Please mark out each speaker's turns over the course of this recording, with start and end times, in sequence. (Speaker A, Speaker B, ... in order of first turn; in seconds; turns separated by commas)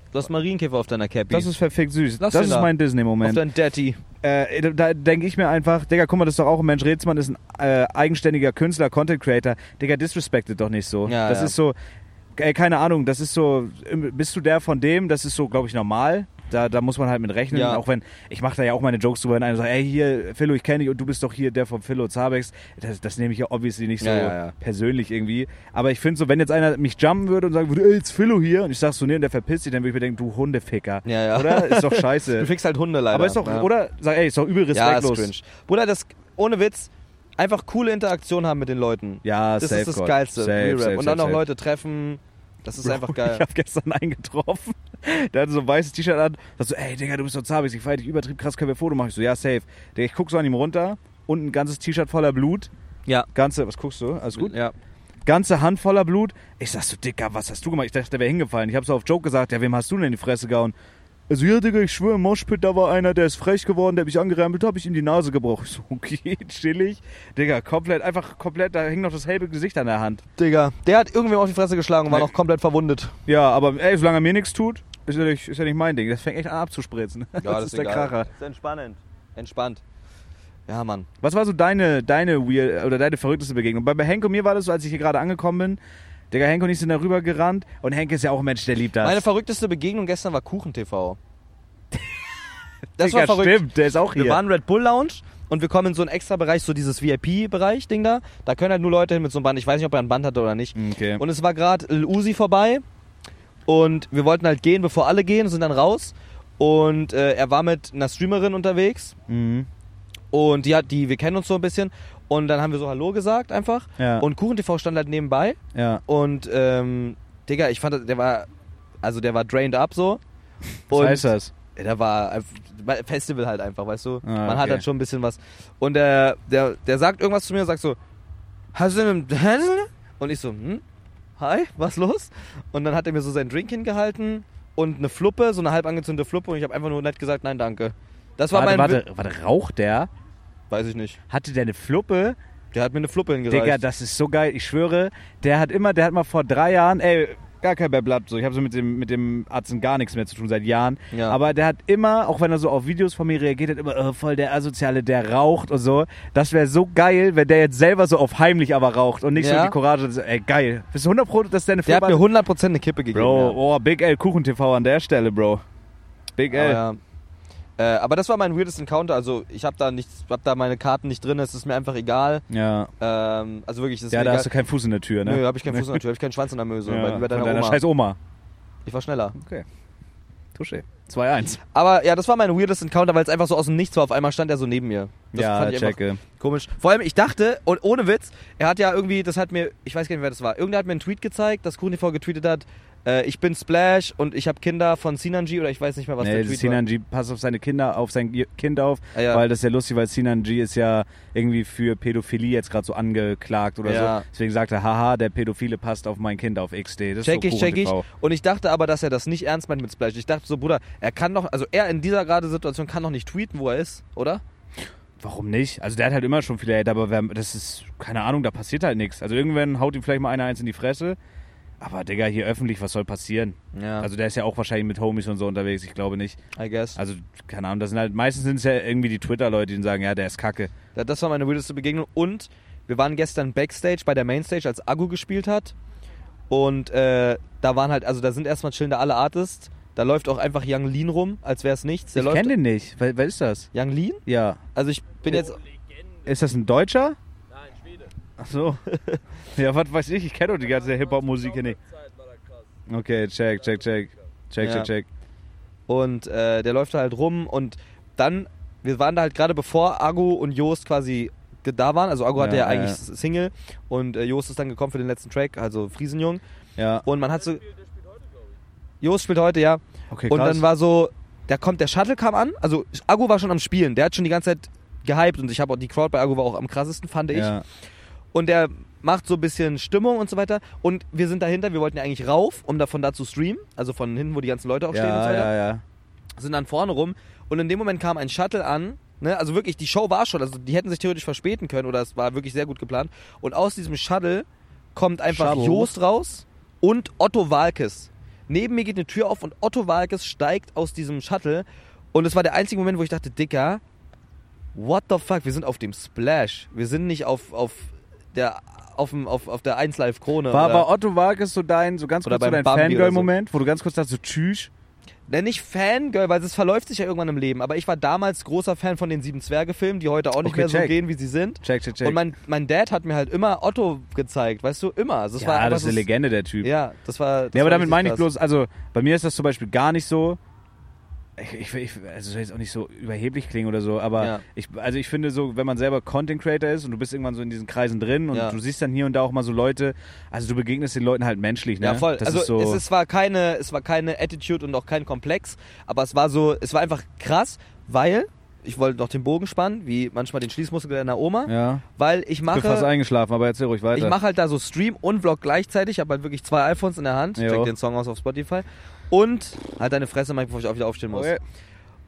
Speaker A: 0.1-1.5, Speaker B: 1.3-3.4, Speaker A: 2.2-2.7, Speaker A: 3.2-4.0, Speaker B: 4.2-11.7, Speaker A: 11.1-11.5, Speaker B: 12.3-32.5, Speaker A: 17.5-17.8, Speaker A: 24.0-24.5, Speaker A: 31.0-33.7, Speaker B: 33.1-35.3, Speaker A: 34.7-43.4, Speaker B: 39.2-41.4, Speaker B: 42.8-52.7, Speaker B: 53.3-54.5, Speaker A: 54.4-54.7, Speaker B: 55.2-60.7, Speaker B: 61.3-70.2, Speaker A: 70.4-73.1, Speaker B: 73.2-78.3, Speaker A: 77.4-79.8, Speaker A: 80.7-81.1, Speaker B: 81.2-85.8, Speaker B: 86.3-89.2, Speaker A: 89.0-91.2, Speaker B: 93.0-94.4, Speaker A: 93.0-102.8, Speaker B: 100.7-101.2, Speaker A: 103.7-109.1, Speaker B: 109.3-109.7, Speaker A: 110.3-118.5, Speaker B: 114.0-114.3, Speaker B: 115.7-116.0, Speaker A: 119.0-120.2, Speaker A: 120.9-128.0, Speaker B: 120.9-121.5, Speaker B: 124.2-124.8, Speaker A: 128.7-130.8, Speaker A: 131.4-139.0, Speaker B: 138.5-140.1, Speaker A: 140.7-141.2, Speaker B: 141.3-142.4, Speaker A: 142.7-143.8, Speaker B: 143.5-162.3, Speaker A: 151.1-151.4, Speaker A: 159.3-159.7, Speaker A: 161.8-163.6, Speaker B: 163.1-165.6, Speaker B: 166.3-166.8, Speaker A: 166.5-167.0, Speaker A: 167.8-172.4, Speaker B: 172.5-172.9, Speaker A: 173.0-174.5, Speaker B: 174.1-176.0, Speaker A: 175.2-177.8, Speaker B: 176.8-178.2, Speaker A: 178.8-179.3, Speaker B: 179.3-179.7, Speaker B: 180.5-181.6, Speaker A: 181.7-196.8, Speaker B: 185.3-186.2, Speaker B: 196.2-208.0, Speaker A: 199.1-199.4, Speaker A: 203.8-204.2, Speaker A: 207.2-214.4, Speaker B: 215.2-221.2, Speaker B: 221.8-226.4, Speaker A: 223.7-224.1, Speaker A: 226.6-227.0, Speaker B: 226.9-230.7, Speaker A: 230.9-235.7, Speaker A: 236.5-242.5, Speaker B: 242.1-243.7, Speaker A: 243.7-244.2, Speaker B: 244.2-244.6, Speaker A: 244.7-245.6, Speaker C: 245.2-246.4, Speaker B: 246.2-247.2, Speaker C: 247.5-248.1, Speaker B: 248.4-251.8, Speaker C: 250.5-252.8, Speaker B: 252.9-255.1, Speaker C: 253.5-254.2, Speaker A: 254.6-254.9, Speaker A: 255.9-266.4, Speaker B: 262.4-263.0, Speaker B: 266.8-267.1, Speaker A: 267.0-267.6, Speaker C: 267.1-268.6, Speaker A: 269.0-277.5, Speaker B: 270.1-270.7, Speaker B: 277.3-277.6, Speaker A: 278.3-285.5, Speaker B: 284.9-285.8, Speaker A: 286.4-303.8, Speaker B: 295.3-295.9, Speaker A: 304.7-310.9, Speaker B: 310.5-314.7, Speaker A: 312.2-313.3, Speaker A: 315.3-326.0, Speaker B: 320.4-321.0, Speaker B: 321.6-322.2, Speaker B: 325.4-326.7, Speaker A: 326.6-328.3, Speaker B: 327.5-330.4, Speaker B: 331.4-342.8, Speaker A: 334.2-334.4, Speaker A: 338.3-338.6, Speaker A: 341.8-352.9, Speaker B: 351.4-351.8, Speaker B: 352.5-354.2, Speaker A: 353.9-361.3, Speaker B: 357.4-357.7, Speaker B: 361.1-361.4